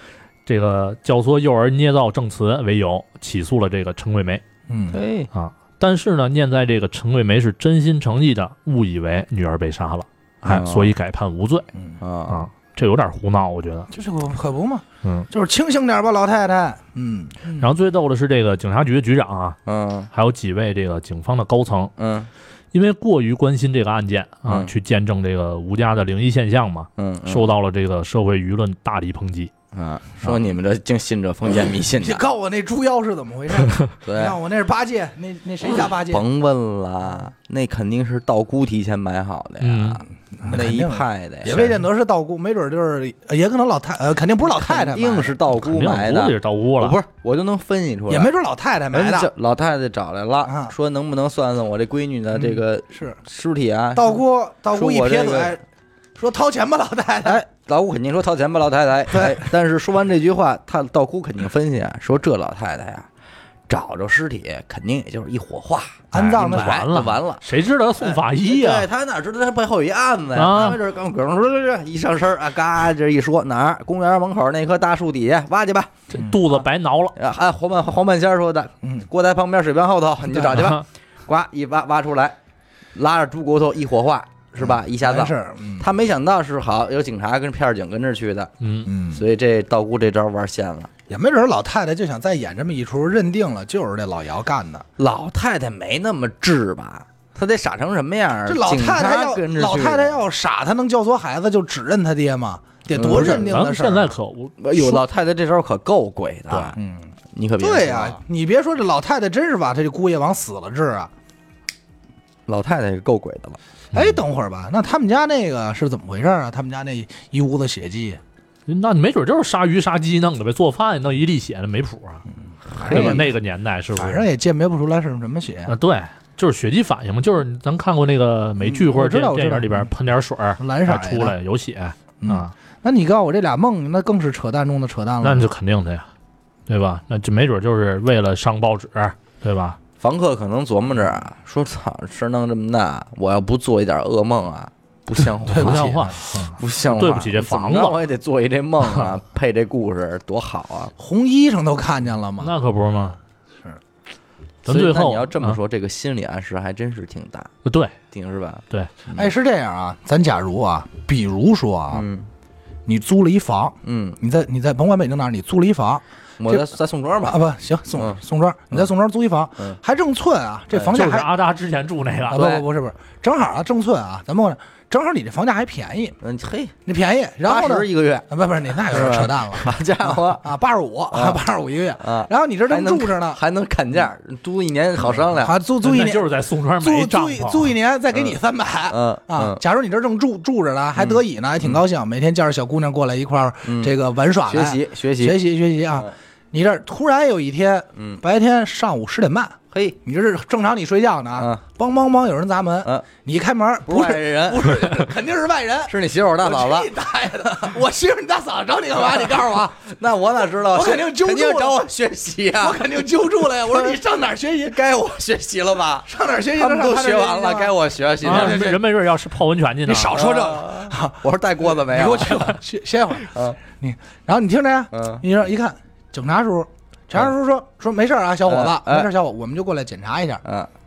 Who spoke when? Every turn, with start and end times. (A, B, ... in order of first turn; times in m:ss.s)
0:00.5-0:04.4 A
0:04.7-0:05.0 B
0:04.9-0:05.3 C
0:05.3-0:11.7 A
0:10.4-0:10.9 C
0:12.0-0:12.4 C
0:12.3-0:13.9 A
0:13.9-0:17.7 B
0:17.6-0:19.6 A
0:19.7-0:20.1 C
0:20.1-0:21.9 A
0:22.0-0:22.3 C
0:22.7-0:29.5 A
0:24.5-0:24.7 C
0:27.0-0:27.5 C
0:29.7-0:32.2 C
0:32.0-0:36.2 B
0:34.0-0:34.4 C
0:36.1-0:41.8 C
0:39.6-0:40.0 A
0:40.3-0:45.4 B
0:44.5-0:48.3 C
0:45.5-0:47.0 A
0:48.1-0:49.3 B
0:48.9-0:54.2 C
0:50.4-0:50.7 B
0:52.4-0:53.2 B
0:53.9-0:55.6 B
0:54.7-0:55.6 C
0:56.2-0:57.4 B
0:57.2-1:03.1 C
0:59.1-0:59.4 B
1:03.7-1:07.5 C
1:06.1-1:06.8 B
1:06.1-1:08.9 A
1:08.0-1:15.9 C
1:10.4-1:10.8 A
1:16.1-1:17.1 A
1:17.2-1:22.4 C
1:18.8-1:19.1 B
1:20.4-1:20.8 A
1:23.0-1:30.9 C
1:24.6-1:25.9 B
1:28.6-1:28.9 A
1:28.9-1:29.2 B
1:31.1-1:34.9 B
1:35.0-1:40.2 C
1:38.5-1:44.1 B
1:42.9-1:43.5 C
1:43.0-1:44.6 A
1:44.6-1:46.8 C
1:46.5-1:51.1 B
1:47.4-1:48.2 C
1:52.5-1:53.6 C
1:53.9-1:54.2 A
1:53.9-1:58.2 B
1:58.7-2:02.2 A
2:02.8-2:03.2 C
2:02.8-2:03.3 B
2:02.8-2:04.3 A
2:04.0-2:05.7 B
2:05.7-2:12.5 A
2:08.6-2:09.9 B
2:10.6-2:11.4 B
2:12.2-2:15.5 B
2:15.2-2:16.1 A
2:16.7-2:19.8 A
2:20.0-2:30.9 C
2:25.4-2:26.2 B
2:25.5-2:28.0 A
2:28.8-2:29.1 A
2:31.0-2:32.6 B
2:32.4-2:33.2 A
2:34.6-2:35.6 A
2:34.7-2:37.5 C
2:37.6-2:37.9 A
2:38.1-2:39.3 C
2:39.1-2:42.0 B
2:41.9-2:42.3 C
2:42.9-2:46.7 B
2:43.8-2:44.2 C
2:46.4-2:47.4 C
2:47.3-2:51.3 B
2:50.9-2:52.4 A
2:52.3-2:56.2 B
2:52.3-2:52.7 C
2:56.2-2:56.8 C
2:56.9-3:03.4 B
2:57.4-3:00.5 C
3:01.1-3:01.4 C
3:02.0-3:05.5 C
3:05.3-3:29.9 B
3:05.8-3:07.7 A
3:08.1-3:08.4 C
3:08.9-3:09.6 C
3:11.0-3:11.8 C
3:13.6-3:13.9 C
3:14.4-3:15.4 C
3:19.7-3:20.0 C
3:21.4-3:21.6 C
3:23.9-3:25.1 C
3:25.9-3:26.9 C
3:27.5-3:27.7 C
3:29.2-3:33.0 C
3:30.7-3:31.8 B
3:32.6-3:34.8 B
3:33.7-3:34.0 C
3:34.7-3:38.7 C
3:36.1-3:38.8 B
3:38.2-3:40.2 A
3:39.9-3:50.4 B
3:40.2-3:42.6 C
3:43.3-3:43.6 C
3:44.9-3:45.2 C
3:48.5-3:49.1 C
3:50.4-3:50.7 C